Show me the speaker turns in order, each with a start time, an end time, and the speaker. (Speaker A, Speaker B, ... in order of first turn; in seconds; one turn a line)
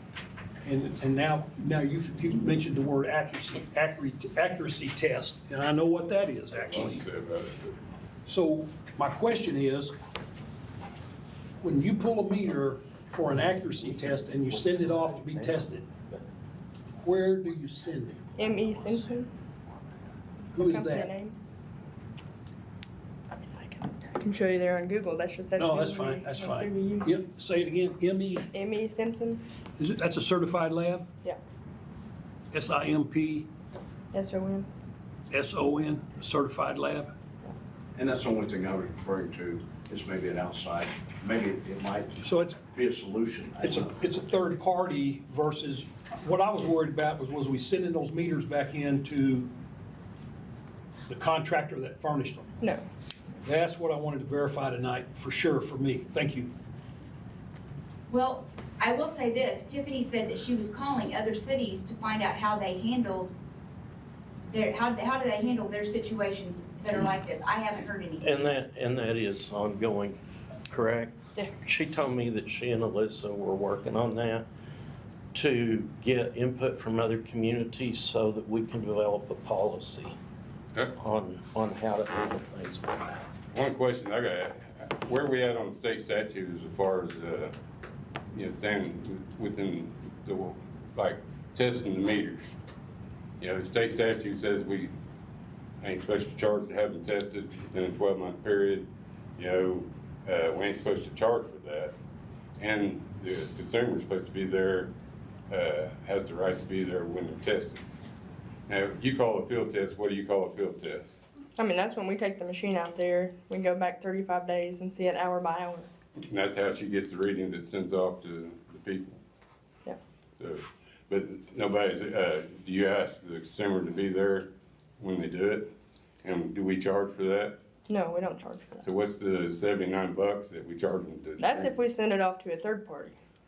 Speaker A: 0.6-7.0
Speaker B: 6.6-7.8
Speaker A: 8.3-9.9
Speaker A: 11.6-15.9
Speaker C: 14.7-15.6
Speaker A: 17.0-18.4
Speaker D: 18.4-19.3
Speaker D: 20.5-21.4
Speaker A: 20.5-21.1
Speaker D: 23.3-27.1
Speaker A: 25.6-28.5
Speaker D: 28.5-29.4
Speaker A: 29.8-31.1
Speaker A: 32.5-33.5
Speaker D: 34.1-34.7
Speaker A: 35.3-37.1
Speaker E: 37.9-43.9
Speaker A: 42.2-42.6
Speaker A: 43.6-49.5
Speaker A: 51.1-52.5
Speaker A: 53.4-56.5
Speaker F: 58.1-63.3
Speaker F: 64.5-68.4
Speaker C: 68.2-74.5
Speaker C: 75.3-80.2
Speaker C: 81.0-83.2
Speaker B: 83.5-87.5
Speaker B: 88.3-92.5
Speaker B: 93.4-94.9
Speaker B: 95.8-101.9
Speaker B: 102.6-104.9
Speaker B: 105.5-107.8
Speaker B: 108.7-111.2
Speaker D: 111.6-115.9
Speaker B: 116.2-119.2
Speaker B: 120.4-125.7
Speaker B: 126.2-127.6
Speaker D: 127.9-128.8
Speaker B: 128.8-131.8
Speaker D: 131.4-133.2